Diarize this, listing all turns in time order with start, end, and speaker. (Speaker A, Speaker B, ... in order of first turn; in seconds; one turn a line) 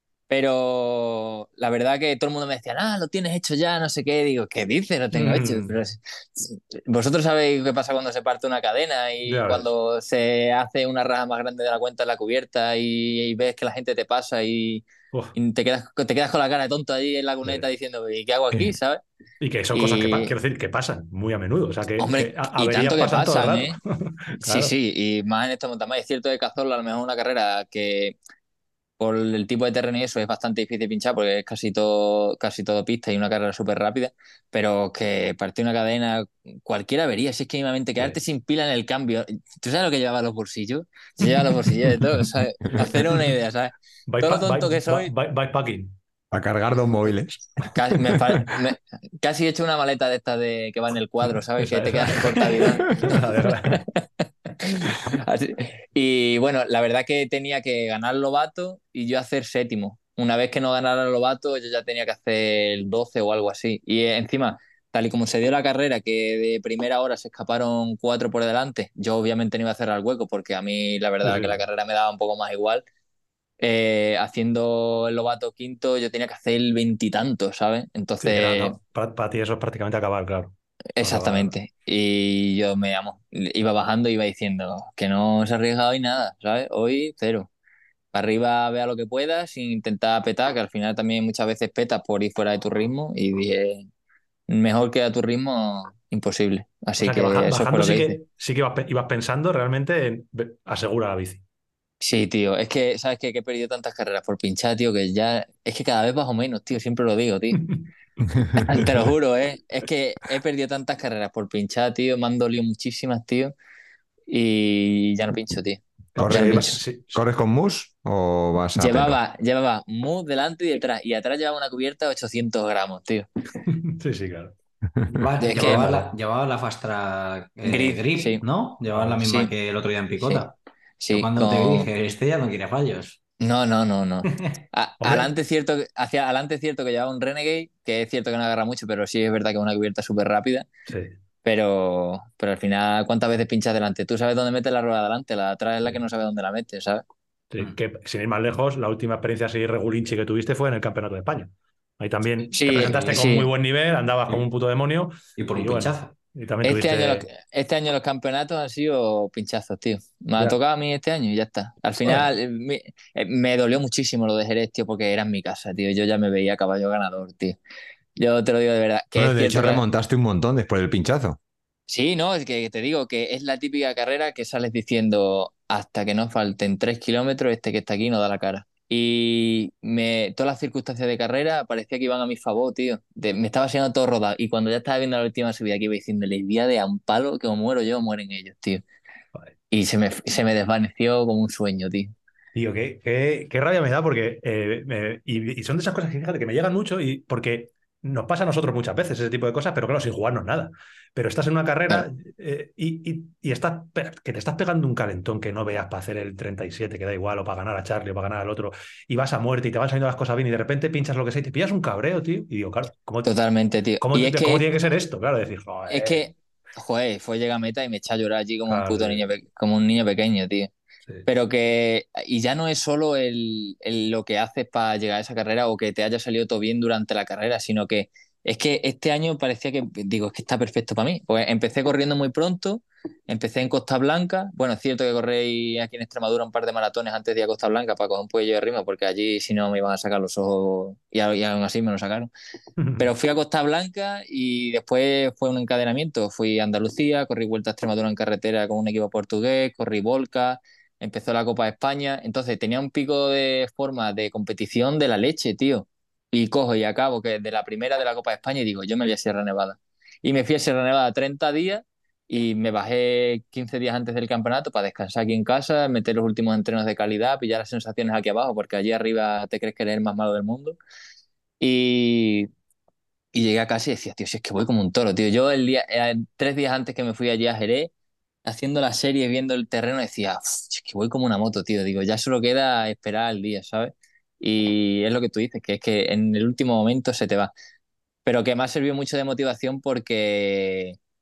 Speaker A: 0.3-19.0
Speaker B: 5.1-5.7
Speaker B: 9.2-9.7
Speaker B: 19.4-24.7
Speaker A: 19.7-20.3
Speaker A: 22.0-23.8
Speaker A: 24.4-28.2
Speaker A: 29.0-45.1
Speaker B: 44.1-45.9
Speaker C: 46.3-47.7
Speaker A: 47.6-72.8
Speaker B: 51.6-53.8
Speaker B: 71.2-71.6
Speaker A: 73.6-78.8
Speaker B: 78.2-81.5
Speaker A: 81.0-87.5
Speaker A: 88.1-93.8
Speaker A: 94.5-98.2
Speaker B: 97.0-101.4
Speaker A: 102.0-107.6
Speaker A: 108.5-113.5
Speaker A: 114.3-116.8
Speaker B: 116.1-117.2
Speaker C: 116.2-119.2
Speaker A: 118.8-123.3
Speaker B: 123.7-124.5
Speaker B: 125.1-126.0
Speaker D: 125.1-130.5
Speaker A: 125.4-126.0
Speaker A: 127.7-128.4
Speaker B: 128.9-129.2
Speaker A: 129.2-129.5
Speaker A: 130.2-130.5
Speaker A: 131.0-131.9
Speaker D: 131.1-133.2
Speaker A: 133.4-140.7
Speaker B: 135.0-135.3
Speaker B: 140.9-141.1
Speaker A: 141.4-147.0
Speaker B: 147.5-157.2
Speaker A: 152.5-153.5
Speaker D: 152.8-153.2
Speaker D: 155.4-156.1
Speaker A: 156.6-167.6
Speaker A: 168.2-169.8
Speaker C: 169.1-171.4
Speaker A: 171.9-188.8
Speaker A: 189.7-192.1
Speaker B: 192.5-213.3
Speaker A: 213.2-214.7
Speaker B: 214.0-216.3
Speaker A: 215.9-220.7
Speaker B: 218.7-219.2
Speaker A: 221.2-242.3
Speaker B: 242.8-243.0
Speaker A: 243.0-270.8
Speaker A: 271.6-272.5
Speaker A: 273.3-277.9
Speaker A: 278.4-287.5
Speaker A: 288.2-291.0